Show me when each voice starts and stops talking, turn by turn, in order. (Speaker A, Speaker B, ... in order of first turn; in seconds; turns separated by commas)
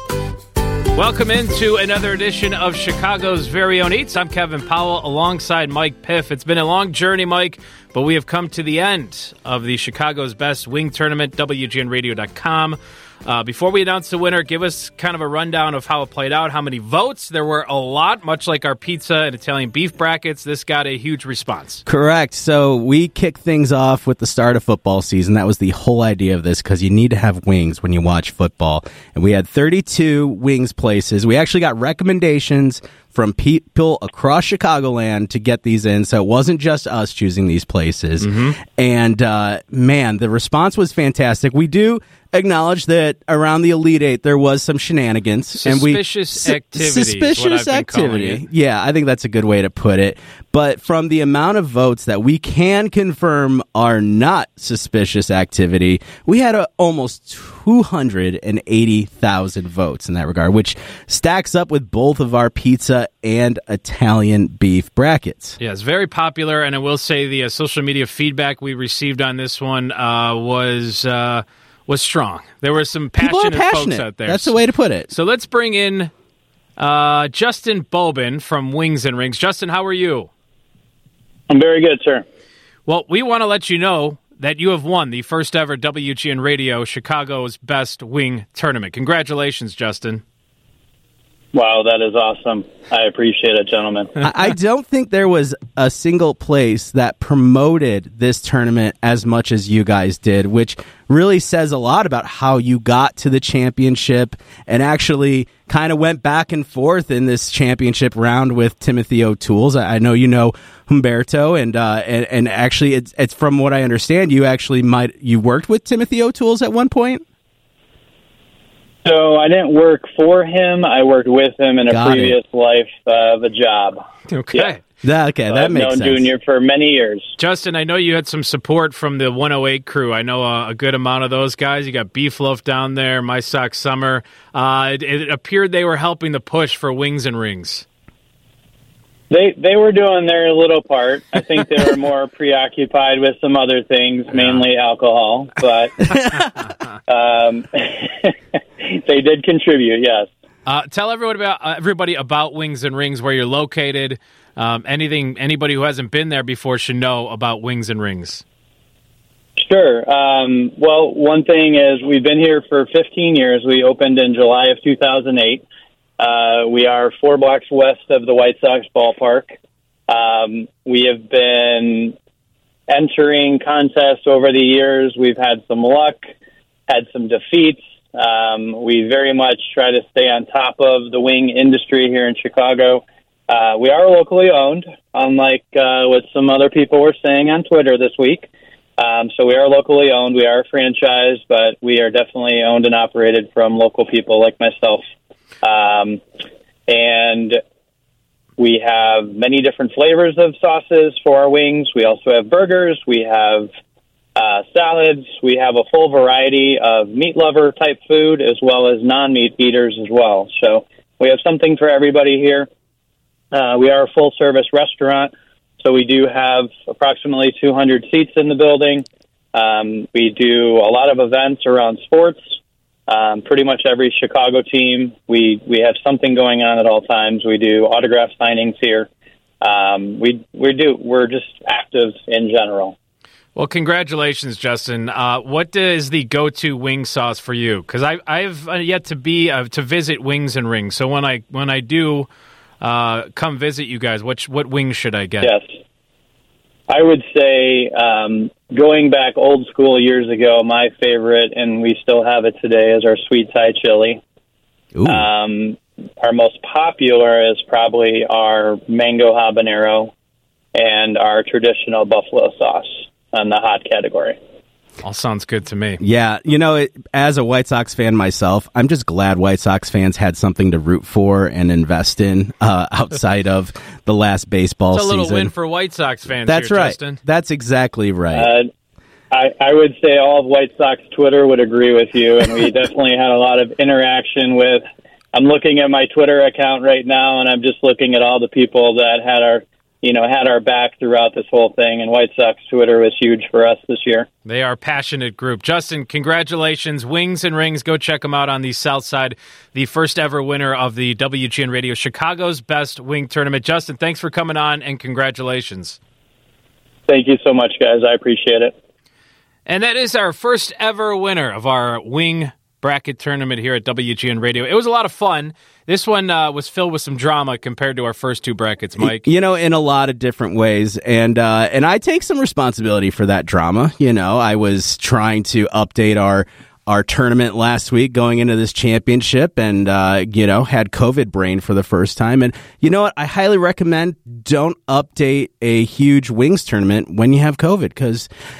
Speaker A: 0.9-21.8, Speaker B: 21.9-65.6, Speaker A: 38.2-38.5, Speaker A: 45.6-48.4, Speaker A: 65.6-74.5, Speaker B: 73.2-75.1, Speaker A: 75.1-76.1, Speaker A: 76.8-80.3, Speaker C: 81.5-82.2, Speaker A: 82.8-90.2, Speaker C: 91.5-94.1, Speaker B: 94.2-117.2, Speaker C: 119.0-124.0, Speaker B: 121.9-122.3, Speaker A: 124.3-124.8, Speaker B: 125.0-126.3, Speaker C: 125.5-127.3, Speaker A: 127.4-137.8, Speaker C: 139.3-146.1, Speaker A: 144.3-144.6, Speaker C: 147.1-150.3, Speaker A: 150.7-158.4, Speaker C: 159.6-165.6, Speaker C: 166.2-169.5, Speaker C: 170.1-172.2, Speaker C: 172.9-176.2, Speaker C: 176.9-195.0, Speaker C: 195.6-196.2, Speaker C: 196.9-197.6, Speaker C: 198.6-203.7, Speaker C: 204.3-212.7, Speaker C: 213.5-222.6, Speaker C: 223.1-229.1, Speaker C: 229.6-232.9, Speaker A: 233.5-242.3, Speaker A: 242.8-245.5, Speaker C: 246.9-254.2, Speaker B: 254.9-255.3, Speaker C: 255.1-260.1, Speaker C: 260.7-264.4, Speaker A: 265.0-266.0, Speaker B: 266.0-275.5, Speaker A: 274.9-277.2, Speaker B: 276.4-278.5, Speaker C: 278.3-278.7, Speaker C: 279.3-294.3, Speaker A: 294.4-306.0, Speaker C: 307.1-308.7, Speaker A: 309.6-319.3, Speaker B: 319.0-338.3